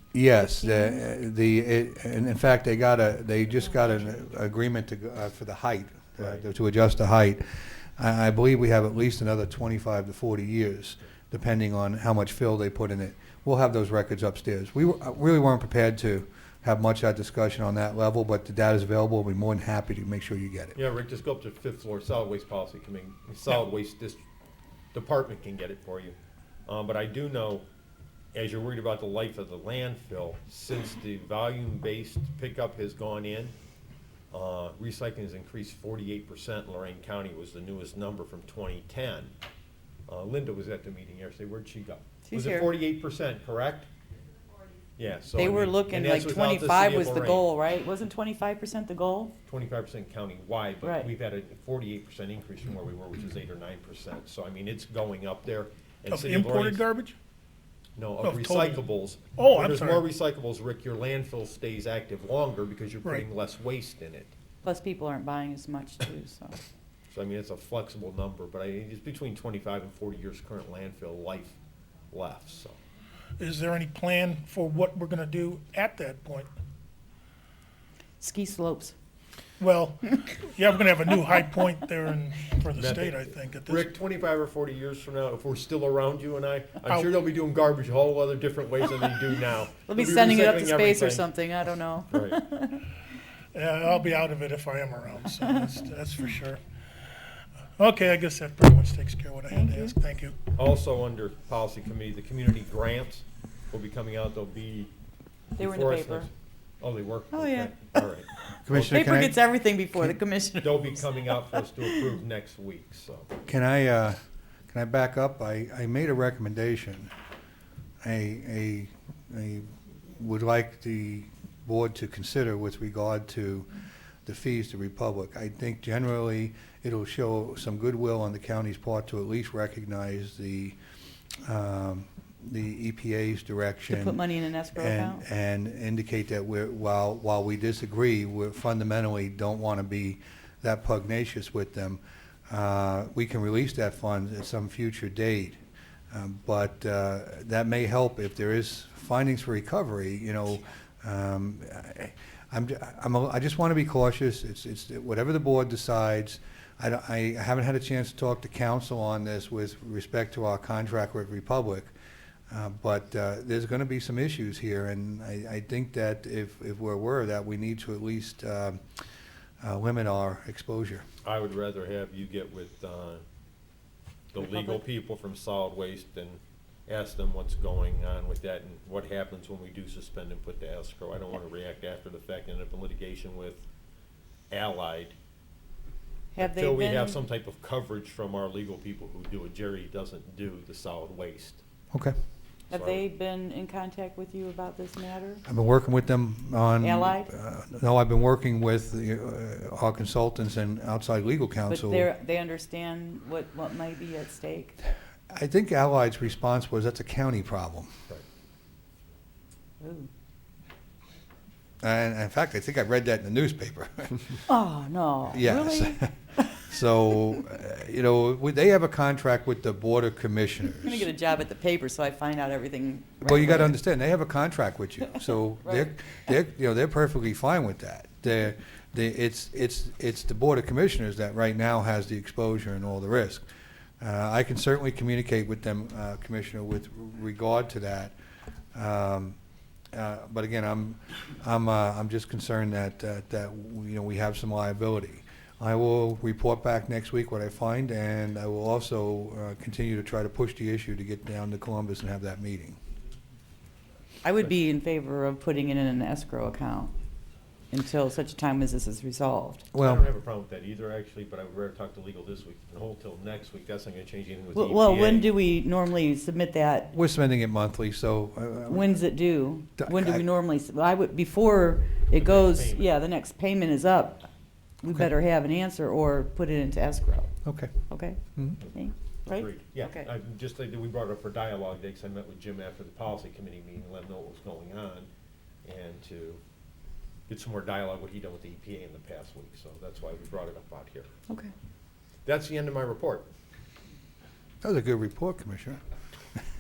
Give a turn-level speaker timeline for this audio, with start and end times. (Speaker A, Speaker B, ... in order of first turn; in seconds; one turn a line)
Speaker A: 0.1-20.8
Speaker B: 0.5-1.0
Speaker C: 20.8-24.2
Speaker C: 24.9-27.7
Speaker C: 28.3-33.5
Speaker C: 34.3-39.3
Speaker C: 40.1-43.9
Speaker B: 42.2-42.7
Speaker C: 45.0-47.5
Speaker B: 45.4-49.3
Speaker C: 49.5-56.8
Speaker B: 50.8-51.1
Speaker D: 56.1-57.2
Speaker C: 58.0-64.3
Speaker D: 58.2-58.8
Speaker D: 59.4-60.0
Speaker B: 64.6-66.6
Speaker C: 67.1-71.6
Speaker C: 72.1-72.8
Speaker D: 73.4-76.5
Speaker B: 78.2-79.0
Speaker D: 79.6-83.9
Speaker C: 82.8-91.3
Speaker B: 89.9-92.8
Speaker C: 92.1-92.4
Speaker D: 93.5-96.6
Speaker D: 97.8-100.4
Speaker B: 99.5-100.0
Speaker C: 100.5-104.9
Speaker B: 105.6-106.3
Speaker C: 105.6-109.1
Speaker B: 107.3-108.1
Speaker A: 108.6-109.4
Speaker B: 108.8-112.0
Speaker C: 110.6-113.3
Speaker A: 113.5-114.2
Speaker A: 114.7-117.1
Speaker A: 118.0-123.7
Speaker A: 124.2-130.8
Speaker A: 131.5-134.2
Speaker B: 133.9-135.2
Speaker A: 134.8-145.6
Speaker A: 146.1-161.9
Speaker A: 162.5-168.8
Speaker A: 169.6-171.1
Speaker C: 171.2-173.2
Speaker C: 174.3-183.7
Speaker B: 174.4-174.8
Speaker C: 184.5-185.2
Speaker B: 186.3-187.2
Speaker C: 186.4-191.6
Speaker B: 192.7-195.4
Speaker C: 192.7-193.0
Speaker A: 195.4-202.1
Speaker B: 196.8-197.3
Speaker B: 201.7-204.8
Speaker A: 205.3-207.9
Speaker B: 209.8-210.1
Speaker A: 211.8-214.4
Speaker B: 214.5-216.4
Speaker A: 215.3-216.1
Speaker A: 216.6-221.1
Speaker B: 220.8-223.7
Speaker A: 223.2-233.4
Speaker B: 225.2-226.2
Speaker A: 234.0-238.2
Speaker A: 238.8-239.4
Speaker A: 239.9-252.8
Speaker B: 254.2-256.9
Speaker B: 257.7-259.7
Speaker A: 259.7-260.1
Speaker C: 259.8-265.3
Speaker B: 264.5-266.9
Speaker A: 266.9-269.0
Speaker B: 268.7-274.3
Speaker A: 269.8-270.2
Speaker C: 272.1-272.9
Speaker B: 274.8-277.3
Speaker A: 277.4-277.8
Speaker B: 277.9-278.2
Speaker B: 278.7-280.1
Speaker C: 279.3-285.1
Speaker C: 285.6-286.4
Speaker C: 287.3-291.1
Speaker C: 292.2-293.3
Speaker A: 294.6-295.8